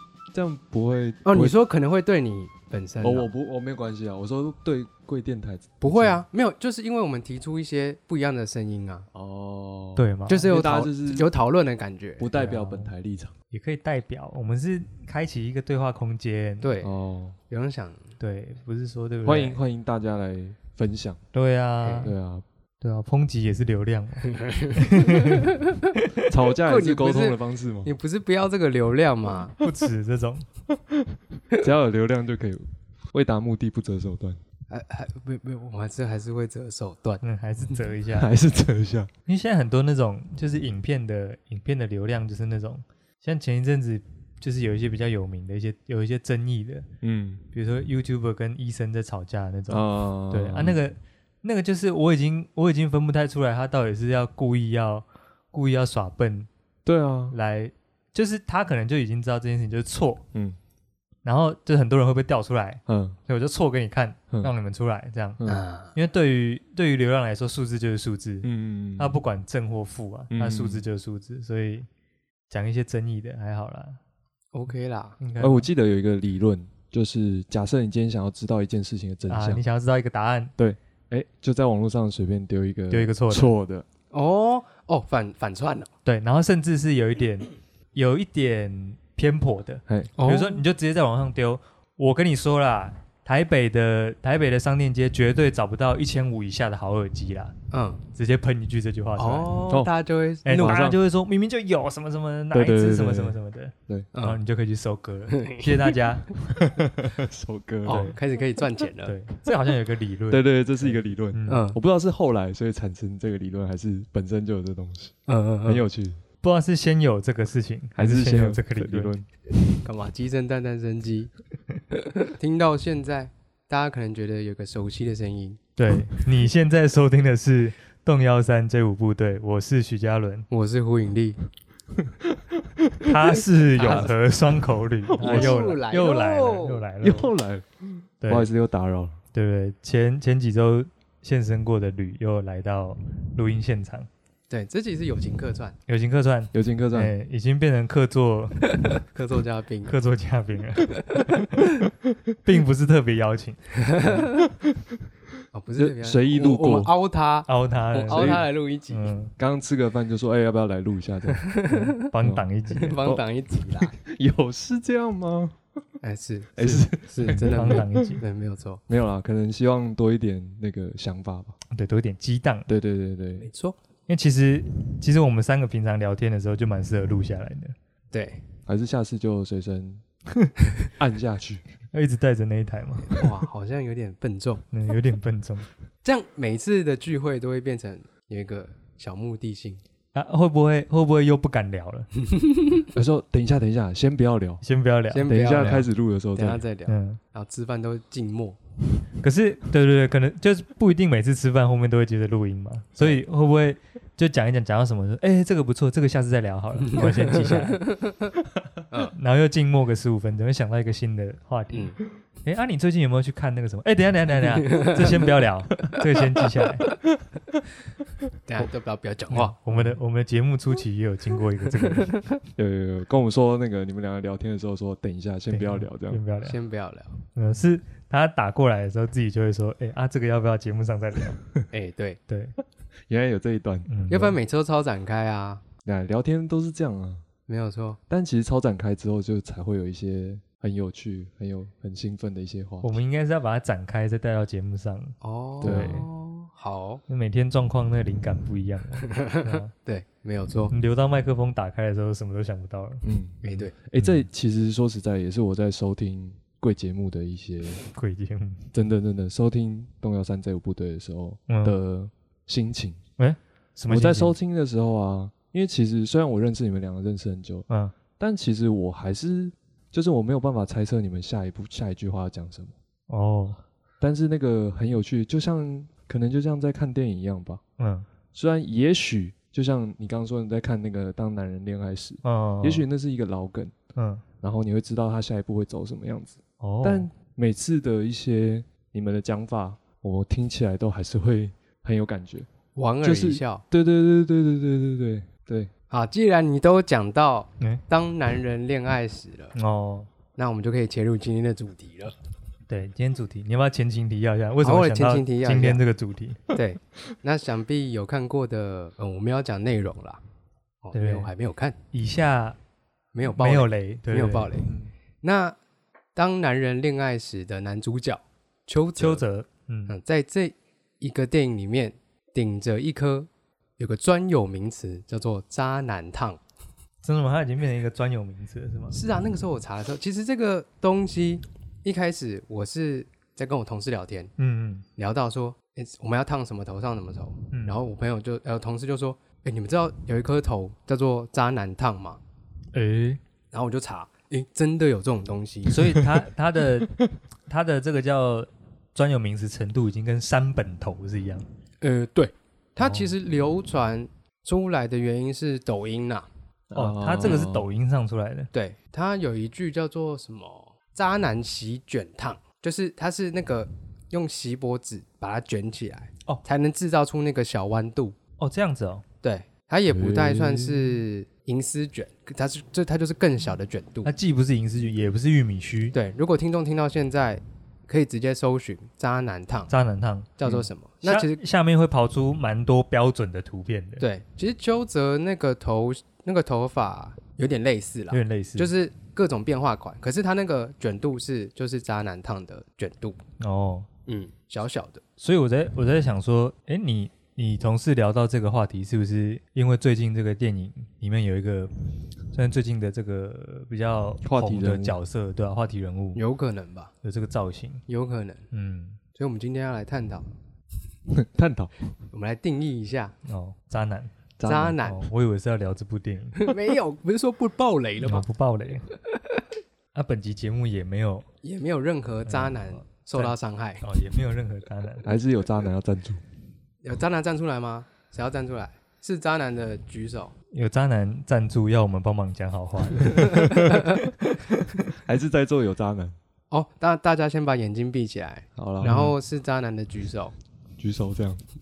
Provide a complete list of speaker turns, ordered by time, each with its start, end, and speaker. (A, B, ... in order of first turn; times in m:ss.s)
0:00.3-0:01.6 A
0:01.2-0:03.3 B
0:03.0-0:06.2 A
0:05.8-0:09.1 B
0:09.1-0:11.3 A
0:10.0-0:10.5 C
0:10.3-0:12.3 B
0:12.2-0:13.3 A
0:12.3-0:12.9 C
0:13.5-0:16.7 C
0:16.6-0:16.9 B
0:16.8-0:17.4 A
0:17.5-0:18.2 B
0:18.2-0:19.6 C
0:19.2-0:21.2 A
0:21.3-0:22.1 C
0:21.8-0:22.1 B
0:22.0-0:22.4 A
0:22.8-0:26.1 C
0:24.2-0:25.9 B
0:26.3-0:27.9 A
0:26.6-0:29.5 B
0:29.5-0:30.4 C
0:30.7-0:34.4 A
0:34.7-0:37.2 B
0:37.2-0:38.3 C
0:38.1-0:39.1 A
0:39.2-0:46.9 C
0:47.0-0:47.4 A
0:47.5-0:56.5 C
0:49.7-0:50.8 A
0:56.8-0:57.4 A
0:57.3-1:00.2 C
1:01.2-1:05.4 C
1:02.9-1:03.2 A
1:05.4-1:05.9 B
1:05.9-1:11.9 C
1:08.4-1:09.2 A
1:10.3-1:10.8 A
1:12.5-1:14.0 C
1:14.5-1:15.2 B
1:15.2-1:15.7 C
1:15.4-1:19.6 A
1:19.3-1:20.5 C
1:20.6-1:23.8 A
1:22.9-1:23.5 C
1:24.1-1:25.9 B
1:26.0-1:37.5 C
1:29.9-1:30.1 A
1:30.2-1:30.6 B
1:37.7-1:38.0 B
1:38.1-1:39.6 C
1:39.2-1:40.8 B
1:40.4-1:46.3 C
1:40.5-1:41.0 A
1:42.5-1:43.4 A
1:44.1-1:44.4 B
1:45.3-1:45.9 B
1:46.6-1:48.1 A
1:47.8-1:49.1 B
1:47.9-1:48.2 C
1:49.0-1:51.6 C
1:50.3-1:56.2 A
1:51.5-1:51.8 B
1:55.3-1:55.8 B
1:56.4-1:59.1 C
1:57.9-1:59.3 A
1:59.8-2:01.3 B
2:01.9-2:05.6 B
2:05.8-2:10.5 C
2:10.5-2:11.4 B
2:12.0-2:14.2 A
2:13.0-2:17.3 C
2:13.7-2:14.1 B
2:15.1-2:15.6 A
2:15.2-2:16.8 B
2:17.0-2:19.2 A
2:18.2-2:18.5 C
2:19.3-2:24.1 C
2:24.5-2:25.8 B
2:25.9-2:29.0 C
2:26.5-2:27.1 A
2:28.7-2:29.9 B
2:29.8-2:31.9 C
2:31.1-2:31.4 B
2:32.4-2:34.2 C
2:33.7-2:34.4 B
2:34.5-2:34.9 A
2:35.5-2:39.1 B
2:35.8-2:36.9 A
2:37.5-2:39.3 C
2:38.1-2:38.4 A
2:39.4-2:41.5 A
2:41.3-2:42.1 B
2:41.7-2:43.0 C
2:42.2-2:42.4 A
2:42.7-2:43.9 B
2:43.8-2:45.6 A
2:46.0-2:48.8 B
2:46.6-2:48.1 A
2:47.4-2:48.2 C
2:48.9-2:51.6 A
2:51.7-2:52.7 C
2:52.7-2:53.5 A
2:53.4-2:53.8 B
2:54.1-2:57.7 C
2:58.1-2:58.4 B
2:58.6-3:00.0 A
3:00.8-3:01.6 A
3:01.9-3:03.2 C
3:03.1-3:04.6 B
3:04.7-3:05.7 C
3:06.0-3:09.8 B
3:10.1-3:12.1 C
3:12.3-3:12.8 B
3:12.9-3:14.6 A
3:14.6-3:15.3 C
3:15.1-3:18.6 B
3:15.2-3:16.6 A
3:16.9-3:17.2 C
3:19.2-3:27.9 C
3:26.9-3:28.4 B
3:29.1-3:37.0 C
3:31.7-3:32.0 B
3:34.5-3:35.3 B
3:38.4-3:39.5 B
3:39.3-3:42.4 C
3:39.7-3:40.0 A
3:42.6-3:46.2 A
3:45.5-3:46.6 C
3:46.4-3:47.2 B
3:47.3-3:51.4 C
3:51.7-3:52.2 B
3:52.3-3:52.6 C
3:53.1-3:53.9 A
3:53.9-3:54.4 C
3:54.1-3:55.6 B
3:55.8-3:57.2 A
3:57.5-3:58.0 B
3:58.1-4:03.0 A
4:02.8-4:06.1 C
4:05.2-4:07.0 B
4:05.6-4:06.0 A
4:07.1-4:09.7 C
4:09.0-4:10.7 B
4:10.7-4:14.2 C
4:13.0-4:17.8 A
4:13.4-4:13.7 B
4:17.8-4:18.7 C
4:18.7-4:23.0 A
4:21.5-4:21.8 C
4:23.2-4:24.3 C
4:23.9-4:27.6 A
4:27.7-4:27.9 C
4:28.2-4:32.8 A
4:33.1-4:33.6 C
4:34.0-4:37.6 A
4:37.8-4:38.1 C
4:38.3-4:43.7 A
4:42.2-4:42.8 C
4:44.0-4:44.2 C
4:44.4-4:52.5 A
4:46.6-4:47.1 C
4:52.7-4:53.6 B
4:53.0-4:55.7 A
4:55.9-4:59.5 B
4:59.6-5:00.1 C
5:00.3-5:02.1 B
5:02.7-5:06.4 C
5:04.6-5:05.8 B
5:06.5-5:10.2 B
5:10.8-5:11.8 B
5:10.9-5:11.3 C
5:11.9-5:12.6 C
5:13.1-5:15.6 B
5:13.2-5:14.5 C
5:14.6-5:14.9 A
5:16.1-5:19.2 B
5:19.0-5:19.9 C
5:19.9-5:26.4 B
5:27.0-5:29.0 C
5:28.9-5:34.3 B
5:34.4-5:34.8 C
5:35.0-5:42.2 B
5:37.5-5:37.8 C
5:42.7-5:43.2 C
5:43.5-5:46.0 B
5:45.7-5:51.4 C
5:45.9-5:46.2 A
5:51.8-5:56.3 B
5:52.8-5:53.1 C
5:56.7-5:57.7 A
5:56.7-5:58.5 C
5:58.5-6:08.2 B
6:08.4-6:09.0 C
6:09.2-6:14.1 B
6:09.9-6:11.0 A
6:14.0-6:16.0 C
6:15.9-6:19.7 B
6:19.7-6:20.5 C
6:20.4-6:21.4 B
6:21.0-6:24.0 C
6:24.0-6:33.2 B
6:28.1-6:28.7 C
6:33.4-6:33.9 C
6:34.0-6:35.0 B
6:35.2-6:41.7 C
6:42.3-6:46.2 C
6:44.2-6:45.0 A
6:46.1-6:46.9 B
6:47.0-6:47.8 C
6:47.9-6:48.4 B
6:48.5-6:49.0 C
6:49.1-6:50.3 B
6:51.1-6:51.7 A
6:52.1-6:53.1 B
6:53.2-6:54.1 C
6:54.4-6:54.8 A
6:54.4-6:55.0 B
6:54.8-6:56.5 C
6:56.4-6:58.2 B
6:58.0-6:58.9 C
6:58.9-6:59.3 B
6:59.9-7:01.2 C
7:01.4-7:03.9 B
7:02.2-7:05.1 C
7:05.0-7:06.2 A
7:06.8-7:10.3 B
7:10.5-7:14.9 C
7:13.0-7:13.7 B
7:15.0-7:16.2 A
7:16.5-7:20.3 B
7:18.6-7:19.1 A
7:18.8-7:19.1 C
7:20.8-7:21.4 A